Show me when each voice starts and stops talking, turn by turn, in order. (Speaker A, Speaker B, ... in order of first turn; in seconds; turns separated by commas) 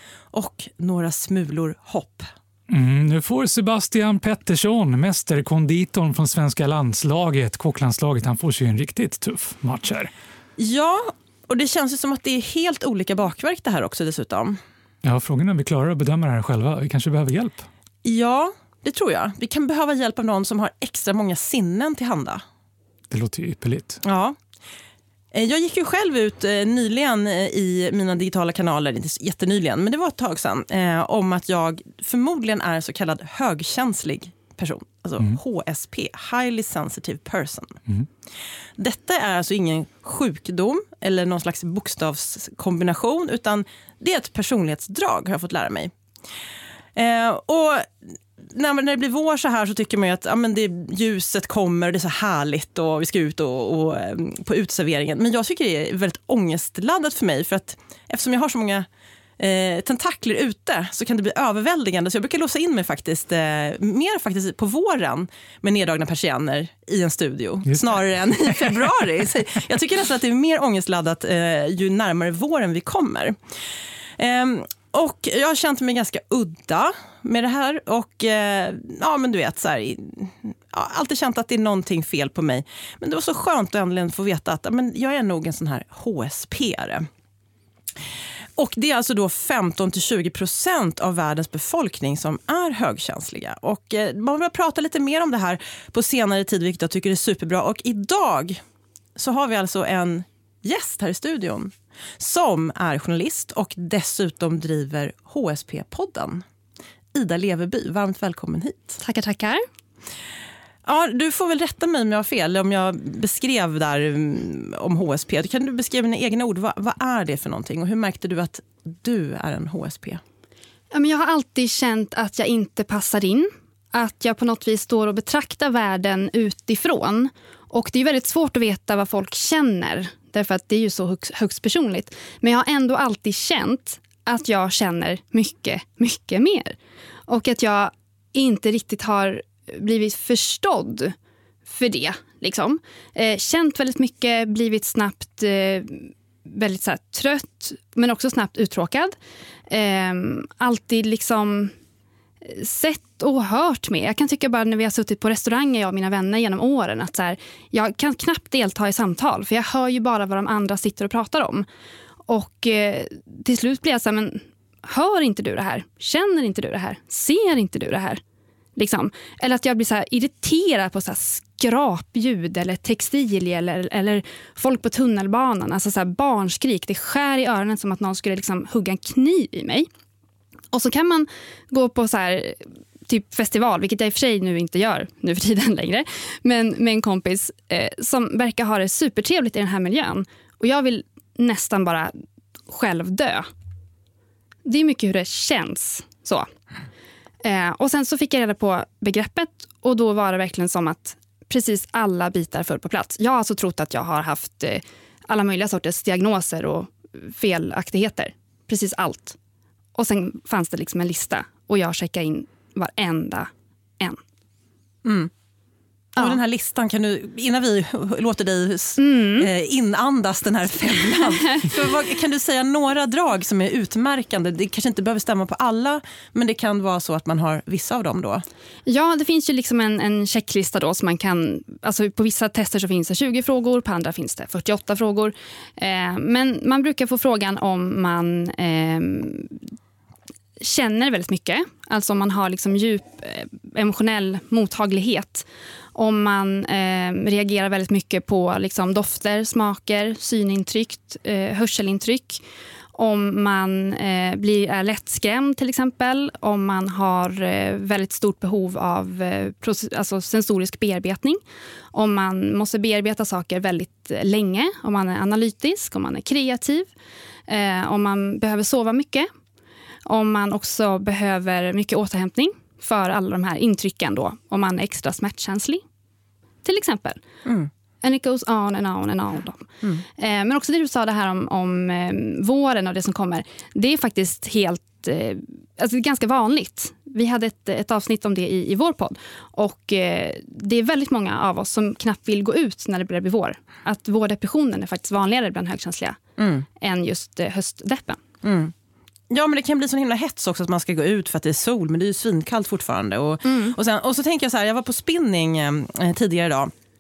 Speaker A: 0.3-2.3, Speaker B: 2.7-10.1, Speaker A: 10.6-14.6, Speaker B: 15.0-17.7, Speaker A: 18.0-22.4, Speaker B: 23.1-24.0, Speaker A: 24.0-24.4, Speaker A: 25.3-37.8, Speaker A: 38.8-45.9, Speaker A: 47.0-58.9, Speaker A: 59.4-73.4, Speaker B: 68.4-68.8, Speaker A: 74.2-87.1, Speaker A: 88.6-98.6, Speaker A: 99.2-106.4, Speaker A: 107.1-109.0, Speaker C: 109.0-109.6, Speaker A: 110.9-120.2, Speaker C: 120.9-136.8, Speaker C: 137.3-141.2, Speaker C: 141.7-149.2, Speaker C: 149.7-151.7, Speaker C: 152.4-161.7, Speaker C: 162.3-168.2, Speaker C: 168.8-179.9, Speaker C: 180.7-192.1, Speaker C: 192.7-193.5, Speaker C: 194.7-196.5, Speaker C: 197.4-209.4, Speaker C: 210.0-214.2, Speaker A: 215.0-215.3, Speaker A: 216.2-228.4, Speaker C: 219.0-219.5, Speaker C: 228.9-239.6, Speaker C: 240.6-252.4, Speaker C: 252.9-261.4, Speaker C: 261.9-266.9, Speaker C: 267.5-269.3, Speaker C: 270.1-275.8, Speaker C: 276.6-277.2, Speaker A: 277.4-277.7, Speaker C: 278.0-296.2, Speaker A: 296.4-296.7, Speaker C: 296.8-298.2, Speaker A: 298.4-298.7, Speaker A: 299.3-306.7, Speaker C: 303.4-303.8